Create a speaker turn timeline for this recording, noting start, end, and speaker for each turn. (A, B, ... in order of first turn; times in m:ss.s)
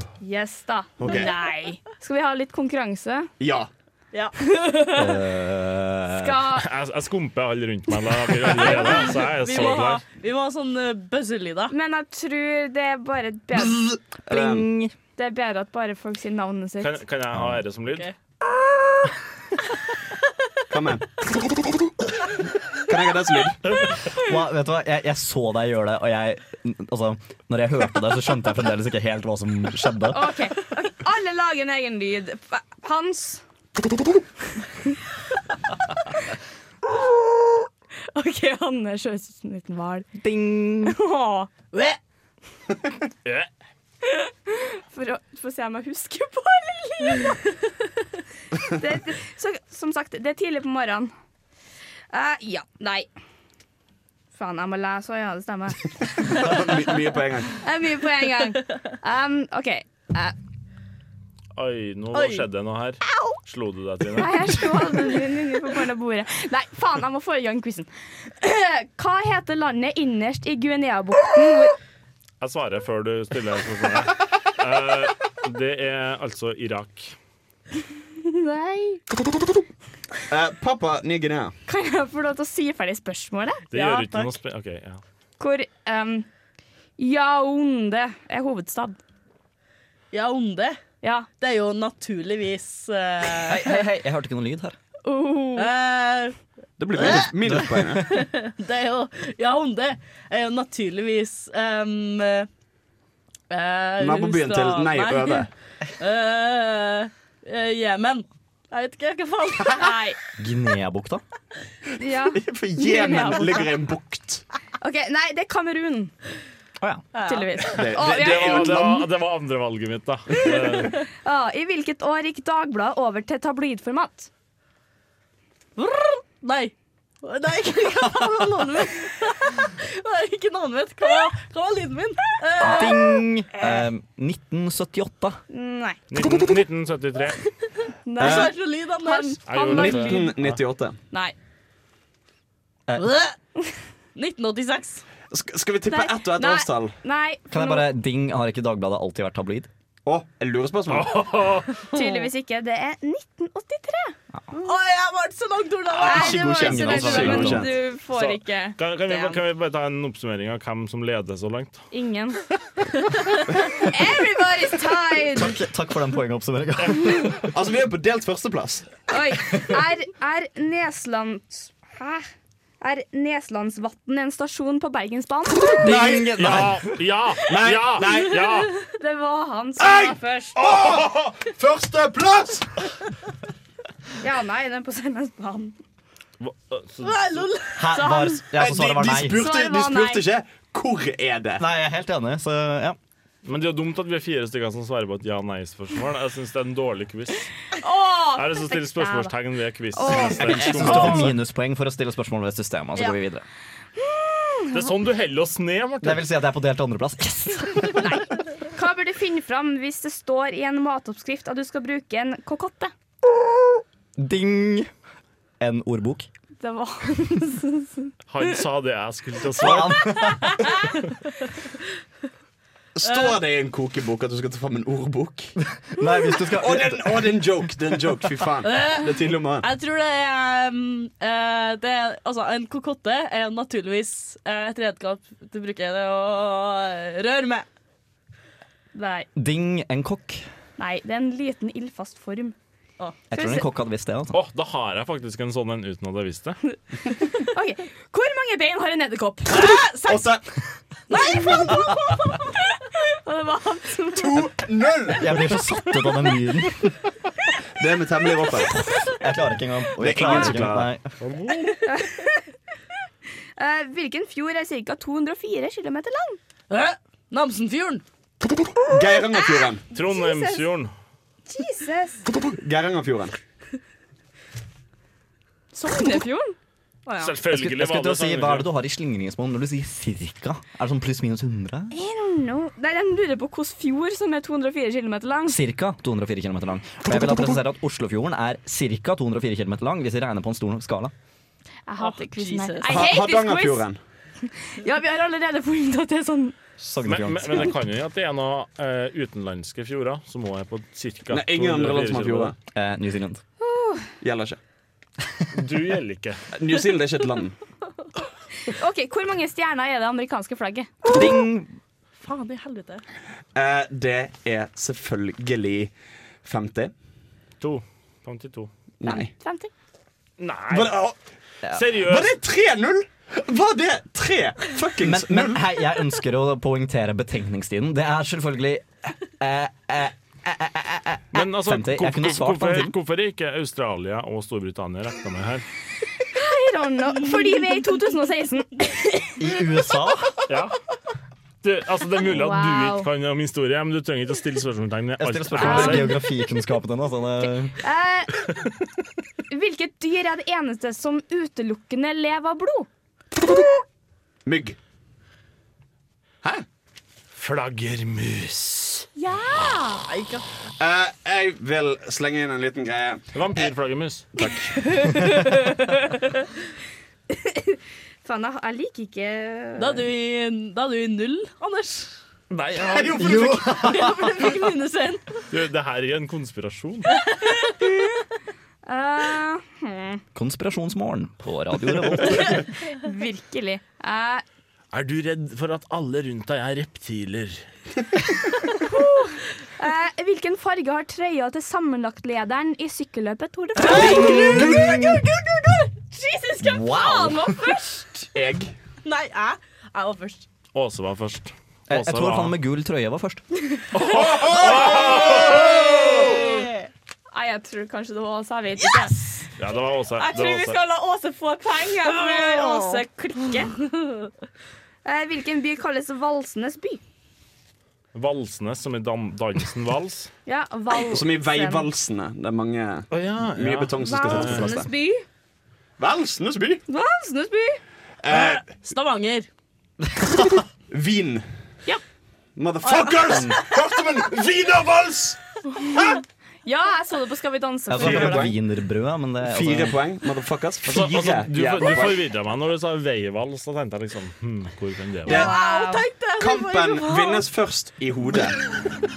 0:00.2-0:03.3 A
0:01.0-0:01.3 B
0:01.1-0:01.3 C
0:03.4-0:03.7 B
0:04.1-0:04.8 C
0:05.0-0:06.5 D
0:06.1-0:06.7 A
0:06.6-0:10.0 E
0:08.5-0:11.7 C
0:11.7-0:13.8 A
0:13.6-0:14.7 B
0:14.3-0:14.9 D
0:15.2-0:17.0 A
0:16.8-0:18.1 E
0:17.3-0:17.6 D
0:20.7-0:21.9 B
0:22.9-0:23.6 B
0:24.2-0:30.3 D
0:30.1-0:33.4 A
0:38.1-0:40.1 A
0:40.2-0:41.0 D
0:40.8-0:41.5 A
0:41.7-0:42.0 C
0:44.0-0:47.4 A
0:48.7-0:51.1 A
0:52.1-0:53.1 A
0:54.3-0:56.3 A
0:56.2-0:57.6 B
0:57.6-1:00.4 A
1:01.6-1:04.8 E
1:02.1-1:02.5 C
1:04.2-1:11.8 A
1:12.4-1:17.1 E
1:18.2-1:19.0 A
1:20.3-1:21.5 B
1:21.7-1:24.2 A
1:23.7-1:25.0 E
1:25.4-1:26.3 A
1:27.0-1:29.0 A
1:30.1-1:30.8 C
1:31.0-1:31.3 A
1:31.4-1:33.8 C
1:33.3-1:34.8 D
1:35.0-1:35.7 A
1:35.6-1:36.4 C
1:36.8-1:38.1 B
1:37.0-1:42.5 C
1:37.5-1:38.0 D
1:43.5-1:45.5 C
1:44.0-1:45.5 B
1:46.0-1:49.9 C
1:49.8-1:50.2 A
1:50.4-1:51.2 D
1:52.0-1:53.7 A
1:52.4-1:54.4 B
1:54.8-1:56.1 A
1:56.8-1:57.1 D
1:57.1-1:57.5 C
1:57.2-1:58.9 A
1:57.8-1:59.1 B
1:57.8-2:01.0 E
2:00.8-2:04.3 A
2:05.8-2:13.2 C
2:12.6-2:15.4 D
2:15.5-2:16.0 A
2:16.1-2:17.4 E
2:18.1-2:20.4 A
2:18.2-2:18.5 B
2:18.2-2:19.4 C
2:19.5-2:20.4 E
2:19.7-2:21.0 B
2:22.9-2:23.1 D
2:23.0-2:23.4 C
2:24.1-2:25.0 C
2:25.3-2:26.9 B
2:25.9-2:27.9 A
2:27.5-2:29.7 D
2:30.1-2:31.3 B
2:30.9-2:31.8 E
2:31.9-2:34.7 A
2:32.0-2:32.3 C
2:34.6-2:37.4 C
2:35.9-2:37.8 B
2:36.0-2:39.4 A
2:36.6-2:37.6 D
2:38.1-2:41.8 E
2:41.9-2:42.4 A
2:43.8-2:45.6 A
2:45.4-2:47.4 D
2:47.5-2:48.9 B
2:49.1-2:52.3 A
2:52.8-2:55.7 A
2:55.8-2:56.7 B
2:55.8-2:57.1 D
2:56.4-2:58.7 E
2:57.5-2:58.4 B
2:59.0-3:00.6 A
2:59.8-3:02.7 B
3:04.2-3:05.8 A
3:06.4-3:07.5 E
3:07.0-3:07.8 C
3:07.8-3:09.4 D
3:07.9-3:08.4 A
3:08.5-3:11.6 B
3:09.2-3:10.2 A
3:11.6-3:13.0 D
3:13.4-3:17.5 E
3:17.8-3:19.3 A
3:18.3-3:21.4 E
3:20.0-3:21.3 A
3:20.4-3:23.4 D
3:20.5-3:21.2 B
3:24.0-3:24.9 A
3:24.7-3:26.2 E
3:26.0-3:28.2 D
3:28.0-3:32.9 A
3:34.2-3:34.9 D
3:35.6-3:36.3 D
3:36.6-3:38.5 A
3:38.3-3:40.3 E
3:39.6-3:40.5 D
3:40.2-3:40.9 A
3:43.0-3:45.5 B
3:43.0-3:43.4 C
3:45.9-3:47.6 D
3:46.6-3:49.7 B
3:48.6-3:57.6 C
3:58.9-3:59.3 A
3:59.4-4:00.4 D
4:00.8-4:02.6 A
4:03.3-4:04.4 D
4:03.3-4:03.6 A
4:04.3-4:06.6 E
4:07.3-4:10.2 A
4:09.5-4:10.4 B
4:11.1-4:11.9 B
4:11.1-4:14.5 A
4:14.2-4:15.3 B
4:15.2-4:16.9 D
4:17.8-4:18.9 B
4:19.2-4:21.2 D
4:20.0-4:20.9 B
4:21.2-4:21.8 E
4:21.8-4:22.5 A
4:23.6-4:26.4 A
4:26.7-4:28.0 C
4:28.8-4:29.8 B
4:29.3-4:30.7 A
4:29.9-4:30.9 E
4:31.5-4:32.2 A
4:32.4-4:33.4 B
4:35.7-4:36.6 A
4:37.1-4:37.3 C
4:37.2-4:38.7 E
4:37.4-4:41.9 D
4:41.9-4:45.6 A
4:45.5-4:51.1 D
4:51.9-4:53.9 A
4:52.0-4:53.0 C
4:52.9-4:54.0 B
4:54.6-4:56.6 A
4:56.8-4:57.8 D
4:57.0-5:02.5 E
5:01.3-5:02.6 B
5:02.7-5:03.4 D
5:03.6-5:04.1 A
5:04.2-5:04.6 B
5:05.5-5:06.4 E
5:06.6-5:07.6 B
5:08.6-5:11.1 A
5:11.1-5:11.8 D
5:12.2-5:13.0 C
5:13.6-5:15.9 B
5:16.4-5:16.9 B
5:17.6-5:18.7 E
5:19.0-5:19.3 B
5:19.0-5:19.7 A
5:20.4-5:21.0 E
5:20.7-5:21.2 B
5:21.7-5:22.3 E
5:22.0-5:25.6 B
5:25.0-5:33.0 D
5:31.3-5:35.6 E
5:36.3-5:39.3 A
5:39.4-5:40.4 D
5:40.5-5:40.8 E
5:41.6-5:46.2 E
5:42.2-5:43.1 A
5:45.2-5:47.8 D
5:45.6-5:46.1 A
5:47.8-5:48.4 A
5:49.5-5:52.9 A
5:54.4-5:54.8 B
5:57.3-5:59.1 E
5:59.2-6:00.1 A
6:00.1-6:00.4 C
6:00.8-6:03.7 B
6:03.3-6:04.8 E
6:05.1-6:05.9 A
6:05.2-6:05.5 C
6:07.3-6:10.0 A
6:09.8-6:12.1 C
6:12.5-6:13.5 E
6:12.9-6:14.0 B
6:13.3-6:13.6 D
6:13.4-6:15.4 C
6:15.5-6:17.1 E
6:17.1-6:17.7 C
6:18.9-6:20.2 A
6:20.4-6:22.6 D
6:22.9-6:24.4 A
6:24.9-6:27.6 E
6:28.8-6:38.3 A
6:33.8-6:35.3 D
6:36.6-6:37.7 D
6:38.3-6:38.7 B
6:39.0-6:40.5 C
6:40.7-6:42.6 E
6:41.9-6:43.4 D
6:43.9-6:45.6 E
6:44.1-6:46.4 B
6:45.4-6:46.4 A
6:45.5-6:46.9 C
6:47.3-6:49.1 A
6:48.8-6:49.5 C
6:49.6-6:50.8 E
6:50.2-6:53.8 A
6:52.0-6:53.0 C
6:55.0-6:57.0 A
6:58.1-7:00.3 E
7:00.5-7:01.9 A
7:01.1-7:04.9 B
7:03.1-7:04.7 E
7:04.0-7:05.2 A
7:06.0-7:06.8 B
7:06.9-7:07.8 A
7:08.2-7:08.7 B
7:08.3-7:09.5 C
7:10.4-7:11.5 B
7:12.6-7:15.4 B
7:12.8-7:13.6 C
7:15.8-7:18.4 A
7:17.9-7:20.0 D
7:18.0-7:18.6 B
7:19.4-7:22.3 B
7:20.9-7:25.5 E
7:25.2-7:25.5 B
7:25.2-7:26.0 A
7:25.3-7:27.5 C
7:26.4-7:28.6 B